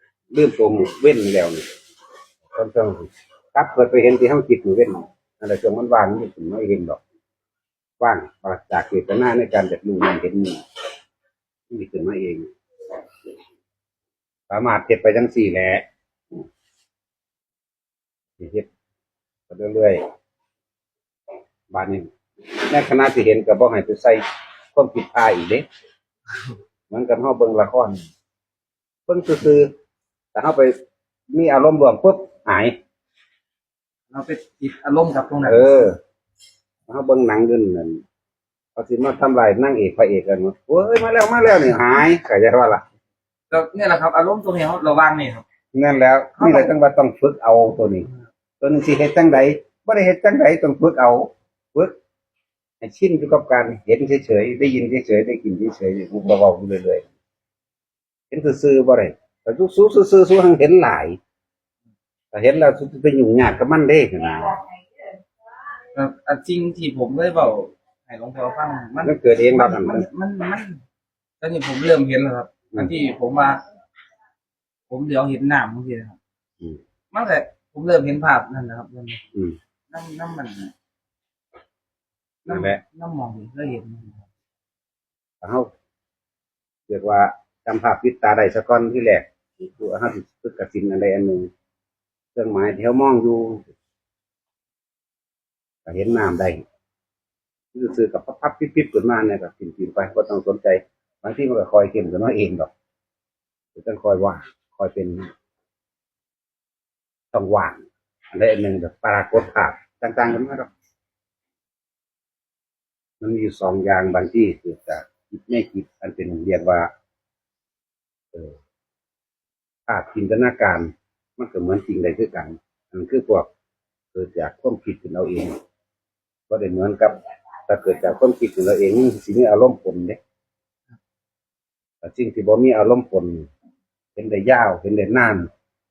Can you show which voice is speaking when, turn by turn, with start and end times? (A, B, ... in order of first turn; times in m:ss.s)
0:00.3-0:01.6 A
0:02.5-0:07.0 A
0:08.0-0:10.6 A
0:11.7-0:12.5 A
0:14.5-0:15.8 A
0:18.4-0:18.7 A
0:19.5-0:20.0 A
0:21.7-0:22.1 A
0:22.7-0:24.2 A
0:24.8-0:25.6 A
0:26.9-0:28.0 A
0:29.1-0:29.7 A
0:30.4-0:30.7 A
0:31.3-0:32.8 A
0:34.1-0:35.7 B
0:35.4-0:36.0 A
0:36.9-0:38.0 A
0:38.8-0:42.8 A
0:43.5-0:45.4 B
0:45.7-0:48.1 A
0:46.4-0:46.7 B
0:48.6-0:52.0 A
0:52.8-0:57.0 A
0:58.3-1:01.2 A
1:02.3-1:04.6 A
1:06.0-1:10.8 B
1:09.0-1:10.1 A
1:11.4-1:13.6 B
1:14.9-1:16.2 B
1:17.1-1:19.2 B
1:19.9-1:20.7 B
1:22.5-1:24.3 B
1:22.5-1:22.8 A
1:25.4-1:25.7 A
1:26.9-1:31.5 A
1:32.4-1:33.7 A
1:35.9-1:36.6 A
1:37.7-1:42.7 A
1:43.8-1:45.3 A
1:47.3-1:50.7 A
1:53.2-1:56.9 A
1:59.9-2:03.5 A
2:04.1-2:05.6 A
2:06.5-2:07.2 A
2:07.7-2:10.2 A
2:12.0-2:13.5 A
2:14.2-2:15.5 A